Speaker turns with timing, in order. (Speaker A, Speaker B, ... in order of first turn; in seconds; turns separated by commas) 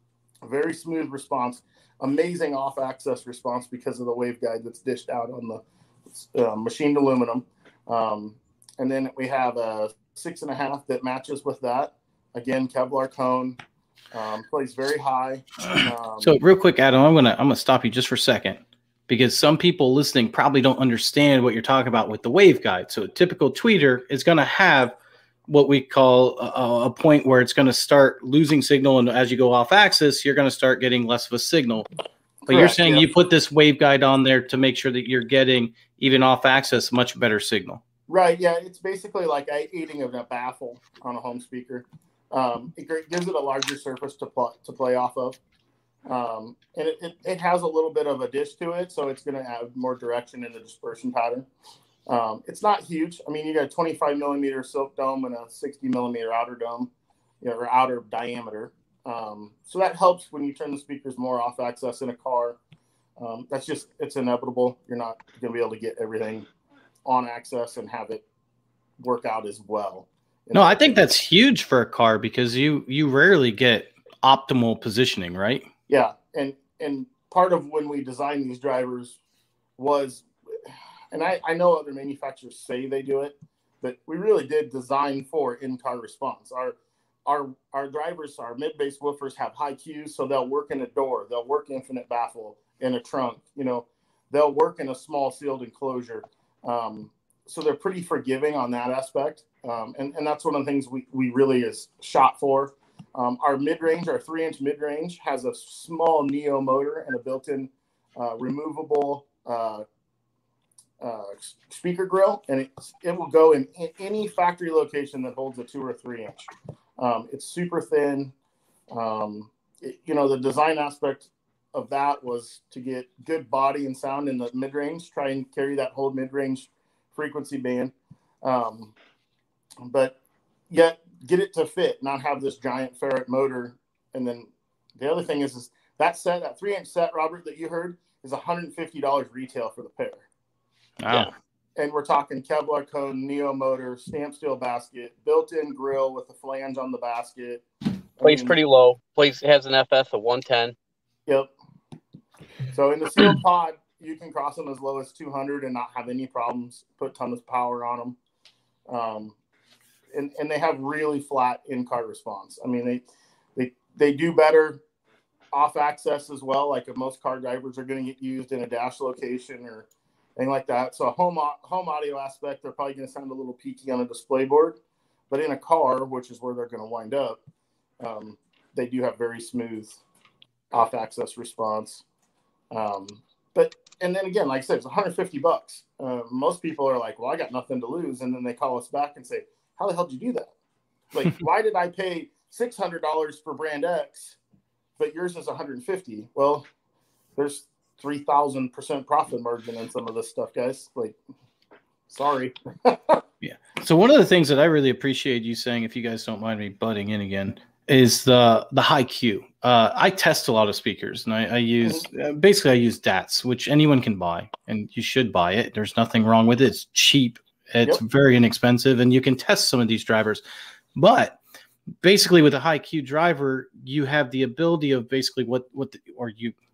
Speaker A: 0.4-5.6, Speaker A: 6.2-13.6, Speaker A: 14.1-16.4, Speaker B: 16.2-24.9, Speaker B: 25.5-31.9, Speaker A: 32.5-33.1, Speaker B: 32.5-37.8, Speaker A: 38.1-45.4, Speaker A: 46.1-51.5, Speaker A: 52.1-56.9, Speaker A: 57.4-62.6, Speaker A: 63.2-66.5, Speaker A: 67.0-68.2, Speaker A: 69.0-71.1, Speaker B: 70.5-75.7, Speaker A: 75.9-79.2, Speaker A: 79.8-80.3, Speaker A: 81.1-109.8, Speaker A: 111.0-118.3, Speaker A: 118.9-128.9, Speaker A: 129.8-130.1, Speaker A: 130.7-140.2, Speaker B: 141.0-141.3, Speaker A: 141.8-147.6, Speaker A: 148.2-148.6, Speaker C: 148.2-150.7, Speaker A: 152.7-158.2, Speaker A: 158.9-159.3, Speaker A: 160.1-164.8, Speaker A: 165.5-174.8, Speaker A: 175.3-177.4, Speaker A: 178.0-180.0, Speaker A: 180.7-182.0, Speaker A: 182.7-190.5, Speaker A: 191.1-194.4, Speaker A: 195.0-196.7, Speaker A: 197.3-201.2, Speaker A: 202.1-203.2, Speaker B: 203.4-220.4, Speaker B: 220.9-221.4, Speaker B: 222.0-226.5